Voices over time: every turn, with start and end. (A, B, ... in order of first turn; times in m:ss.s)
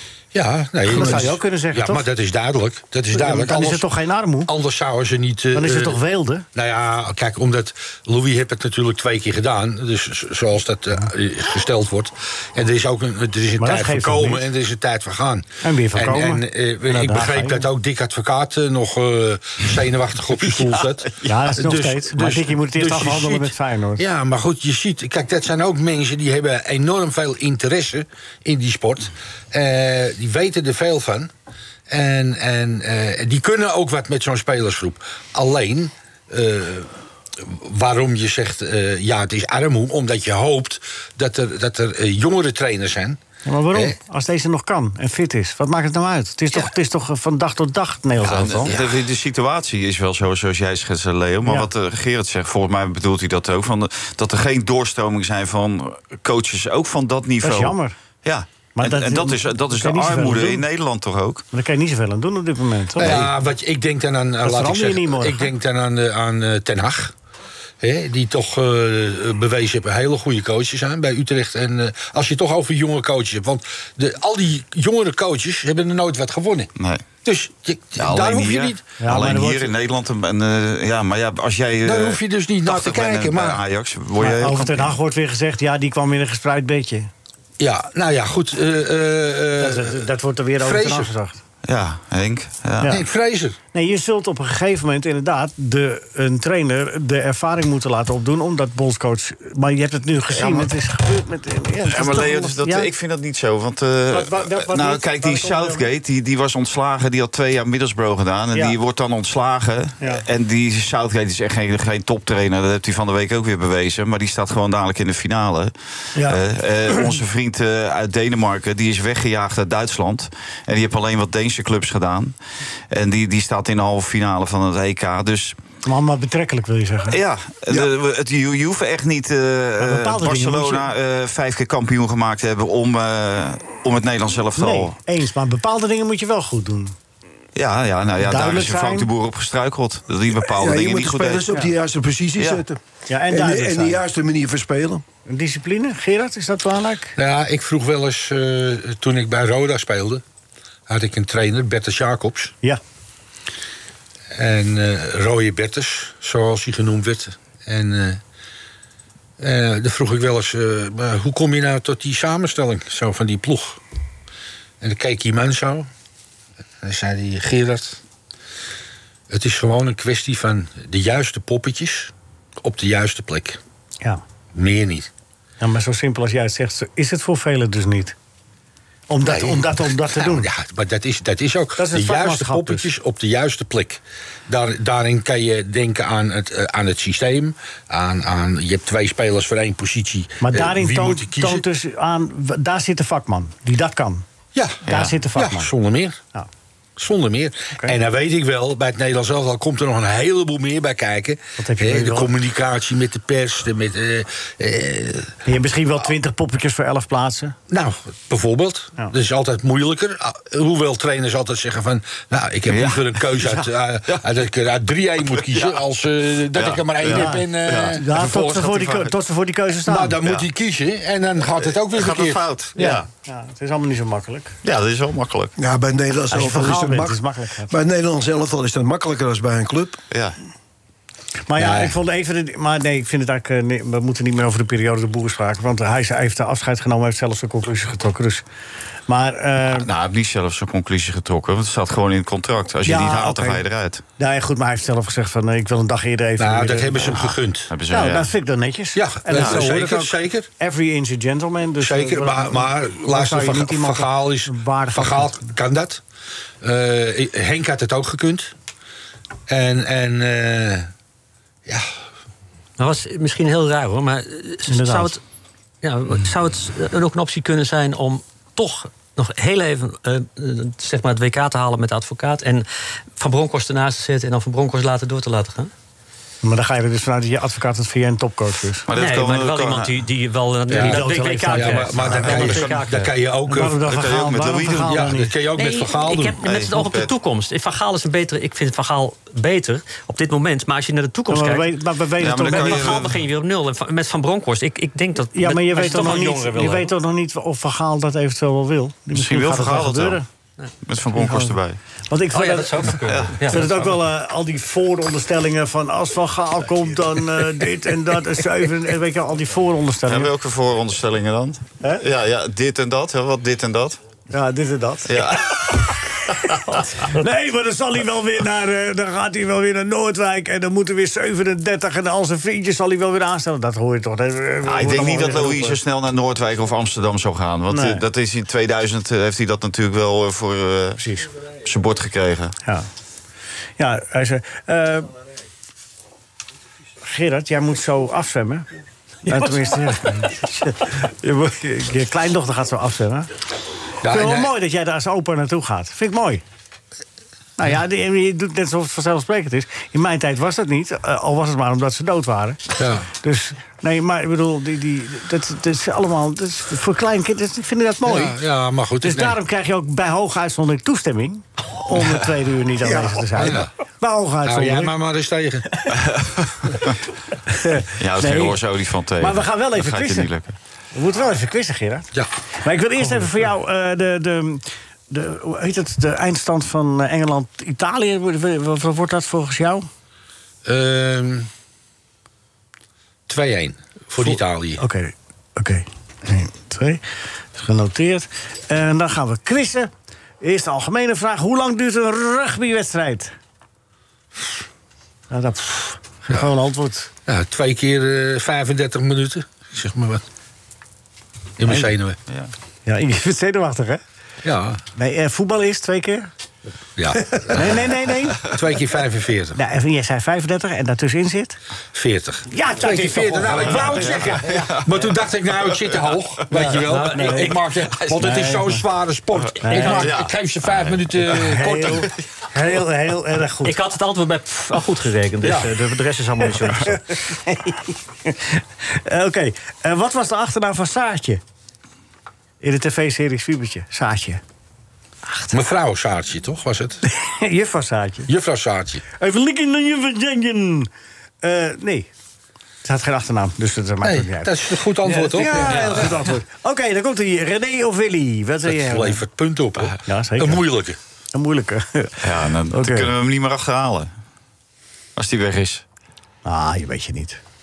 0:00.3-0:03.9 A
0:00.9-0:02.1 B
0:03.1-0:04.5 B
0:04.4-0:06.0 A
0:05.5-0:06.4 B
0:06.5-0:31.3 A
0:13.6-0:14.4 B
0:15.6-0:17.7 B
0:21.2-0:24.0 B
0:31.9-0:43.2 A
0:43.4-0:48.7 B
0:48.2-1:01.4 C
0:48.7-0:48.9 A
0:57.4-0:57.9 B
0:58.8-1:00.6 B
1:01.5-1:03.1 B
1:03.0-1:07.1 A
1:03.0-1:03.3 C
1:04.4-1:05.5 B
1:07.8-1:16.7 A
1:16.8-1:17.0 C
1:17.2-1:18.8 A
1:18.0-1:25.0 C
1:19.0-1:19.7 B
1:21.8-1:23.6 A
1:24.2-1:27.1 B
1:27.6-1:30.0 A
1:29.6-1:31.4 B
1:30.6-1:31.1 A
1:31.6-1:33.0 C
1:32.8-1:33.0 B
1:32.9-1:33.6 A
1:33.7-1:42.9 B
1:40.3-1:40.7 C
1:41.8-2:02.4 C
1:44.1-1:45.9 B
1:50.0-1:50.2 B
1:56.1-1:57.1 B
2:02.9-2:05.6 C
2:05.8-2:07.2 B
2:07.1-2:14.9 C
2:09.8-2:10.9 B
2:14.6-2:16.9 B
2:17.5-2:21.5 C
2:18.2-2:19.1 B
2:20.5-2:25.0 D
2:22.4-2:22.6 C
2:23.1-2:24.0 B
2:25.2-2:27.2 B
2:27.2-2:30.2 A
2:30.9-2:32.5 A
2:34.3-2:38.2 A
2:39.4-2:43.8 A
2:44.8-2:45.9 A
2:46.8-2:48.0 A
2:49.3-2:53.6 A
2:54.5-2:55.1 A
2:55.6-2:58.2 B
2:59.1-3:00.5 B
2:59.2-3:11.6 A
3:01.8-3:02.9 B
3:10.4-3:14.2 B
3:14.5-3:16.2 A
3:14.8-3:15.2 C
3:14.9-3:15.7 B
3:17.0-3:25.4 A
3:21.6-3:22.3 B
3:25.4-3:27.6 B
3:27.7-3:38.2 A
3:32.7-3:34.2 C
3:35.4-3:35.9 C
3:36.5-3:39.1 C
3:37.1-3:40.2 B
3:39.8-3:42.4 A
3:40.2-3:40.5 C
3:41.6-3:43.1 C
3:42.8-3:44.6 B
3:44.6-3:45.5 C
3:45.6-3:50.0 D
3:46.3-3:47.7 B
3:50.1-3:50.4 C
3:51.5-3:58.4 B
3:51.6-3:52.0 A
3:59.1-3:59.9 B
3:59.6-4:04.0 C
4:02.8-4:03.6 B
4:04.2-4:07.3 B
4:06.4-4:07.7 A
4:07.7-4:08.3 C
4:07.9-4:15.6 B
4:09.0-4:10.5 A
4:09.3-4:09.7 C
4:11.8-4:16.0 A
4:16.6-4:18.5 A
4:19.5-4:20.9 A
4:22.8-4:25.2 E
4:24.7-4:25.2 B
4:25.8-4:32.6 E
4:33.2-4:35.7 E
4:36.4-4:38.9 B
4:38.9-4:40.0 C
4:38.9-4:43.1 E
4:40.7-4:43.9 A
4:40.7-4:42.7 B
4:43.5-4:45.3 B
4:43.8-4:45.2 C
4:44.8-4:46.4 A
4:45.6-4:51.7 E
4:46.4-4:47.1 C
4:51.3-4:53.0 B
4:52.2-4:53.2 C
4:52.4-4:56.9 E
4:55.3-5:00.3 B
4:59.1-5:00.2 C
5:00.8-5:01.8 C
5:01.2-5:01.6 B
5:02.1-5:10.3 B
5:02.3-5:04.0 E
5:03.0-5:03.4 C
5:10.1-5:14.0 C
5:14.3-5:15.4 B
5:15.1-5:15.9 C
5:16.3-5:25.8 B
5:24.6-5:32.6 C
5:27.7-5:28.0 B
5:31.0-5:31.3 B
5:33.8-5:35.2 B
5:37.0-5:38.7 B
5:39.3-5:43.3 B
5:44.0-5:44.5 A
5:44.0-5:46.4 B
5:47.6-5:52.6 B
5:52.8-5:53.1 A
5:53.1-5:58.4 B
5:58.0-5:59.4 A
5:59.0-6:04.9 B
6:02.8-6:03.2 D
6:03.3-6:03.7 A
6:04.4-6:05.9 A
6:06.0-6:06.6 C
6:07.5-6:08.6 B
6:08.0-6:10.6 C
6:09.2-6:10.3 B
6:10.9-6:12.1 B
6:12.6-6:19.9 B
6:20.6-6:21.5 A
6:23.3-6:24.8 A
6:24.2-6:27.0 B
6:27.5-6:33.3 B
6:35.3-6:37.1 B
6:37.3-6:40.2 A
6:41.6-6:42.2 A
6:42.9-6:44.0 B
6:44.4-6:44.8 A
6:44.9-6:46.3 B
6:47.0-6:47.9 A
6:47.4-6:48.5 B
6:48.5-6:49.6 A
6:49.6-6:51.6 B
6:51.9-7:02.1 A
6:52.5-6:54.8 B
6:54.0-6:54.8 C
6:56.5-6:57.6 B
6:56.7-6:57.7 E
6:58.1-6:58.8 B
6:59.6-7:00.2 B
6:59.7-7:00.1 E
7:00.1-7:01.2 C
7:01.3-7:03.8 B
7:03.6-7:07.1 E
7:05.4-7:05.8 A
7:07.4-7:11.4 B
7:12.6-7:14.4 B
7:15.5-7:17.0 A
7:17.0-7:18.3 B
7:18.3-7:19.0 A
7:19.2-7:20.9 B
7:21.4-7:22.1 B
7:22.8-7:24.5 B
7:24.0-7:26.1 A
7:25.0-7:29.2 B
7:25.3-7:26.1 E
7:28.6-7:31.0 A
7:30.0-7:30.6 B
7:31.3-7:33.1 B
7:32.2-7:34.1 C
7:35.2-7:35.8 C
7:36.4-7:37.4 B